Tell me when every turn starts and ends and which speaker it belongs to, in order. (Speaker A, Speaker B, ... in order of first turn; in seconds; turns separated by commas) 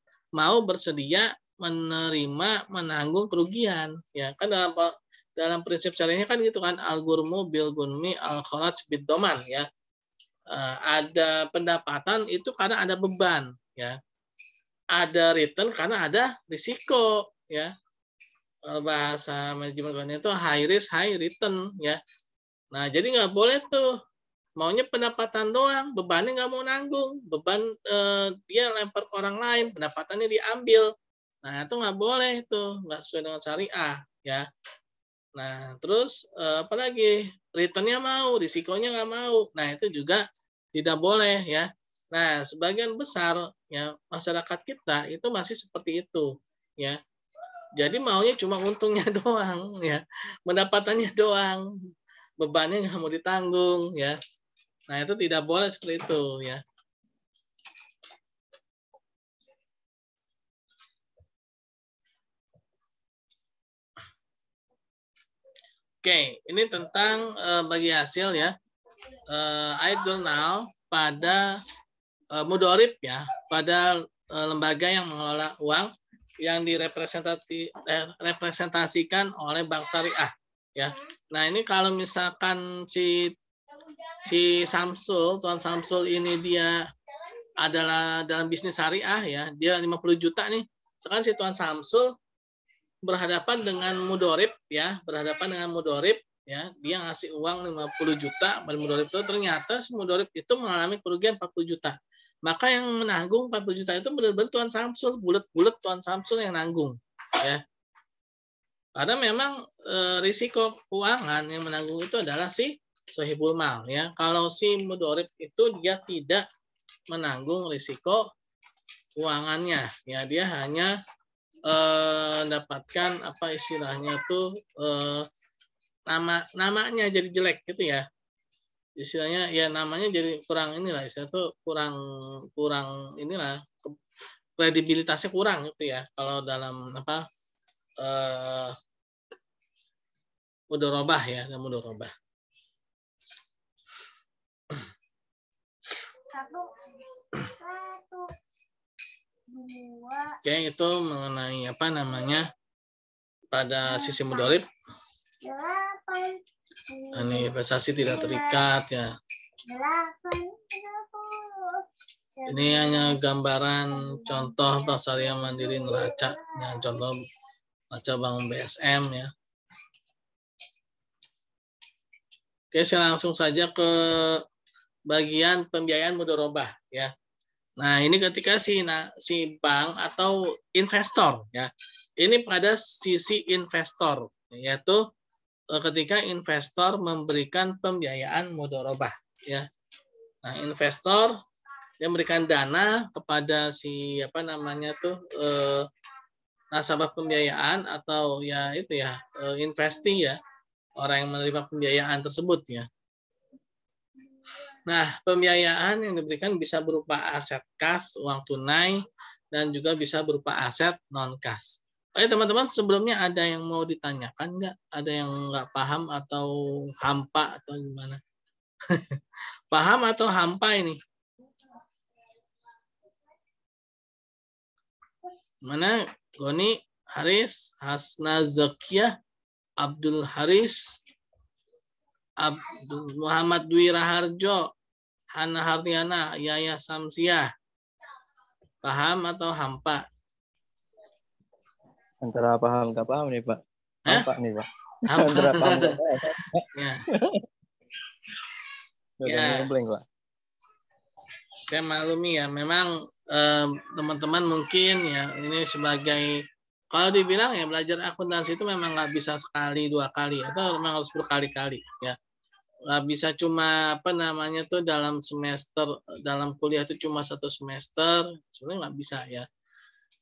Speaker A: 0.4-9.7, Speaker A: 10.5-14.0, Speaker A: 15.0-17.7, Speaker A: 18.7-22.0, Speaker A: 22.7-23.9, Speaker A: 24.6-30.9, Speaker A: 31.4-34.5, Speaker A: 35.4-40.2, Speaker A: 40.8-47.0, Speaker A: 47.8-51.7, Speaker A: 52.4-54.2, Speaker A: 54.9-56.6, Speaker A: 66.0-68.5, Speaker A: 69.3-71.6, Speaker A: 72.3-75.9, Speaker A: 76.4-83.3, Speaker A: 84.3-86.9, Speaker A: 87.6-92.1, Speaker A: 93.0-107.6, Speaker A: 109.0-116.4, Speaker A: 117.1-118.2, Speaker A: 119.2-120.9, Speaker A: 121.7-125.3, Speaker A: 126.1-128.1, Speaker A: 129.0-132.0, Speaker A: 132.6-134.0, Speaker A: 134.6-137.2, Speaker A: 138.0-138.8, Speaker A: 140.7-142.1, Speaker B: 146.3-146.8, Speaker B: 147.4-148.3, Speaker B: 149.5-150.4, Speaker A: 150.4-152.5, Speaker A: 153.5-154.7, Speaker B: 153.9-154.6, Speaker B: 155.4-157.5, Speaker A: 157.1-159.1, Speaker B: 158.0-158.7, Speaker B: 159.7-161.9, Speaker B: 162.4-163.2, Speaker A: 162.5-167.2, Speaker B: 163.9-167.0, Speaker A: 167.9-169.3, Speaker A: 172.7-174.4, Speaker A: 175.1-177.1, Speaker A: 177.8-185.1, Speaker A: 185.7-189.7, Speaker A: 190.4-191.4, Speaker A: 192.0-195.9, Speaker A: 196.7-200.4, Speaker A: 201.0-202.9, Speaker A: 204.9-218.2, Speaker A: 218.9-219.2, Speaker A: 219.7-221.0, Speaker A: 225.7-229.1, Speaker A: 229.8-231.0, Speaker A: 232.4-234.7, Speaker A: 235.3-237.5, Speaker A: 238.8-240.0, Speaker C: 242.2-247.4, Speaker A: 245.1-246.0, Speaker A: 246.7-247.0, Speaker C: 249.2-250.0, Speaker A: 249.3-249.7, Speaker A: 251.7-262.2, Speaker A: 262.9-269.5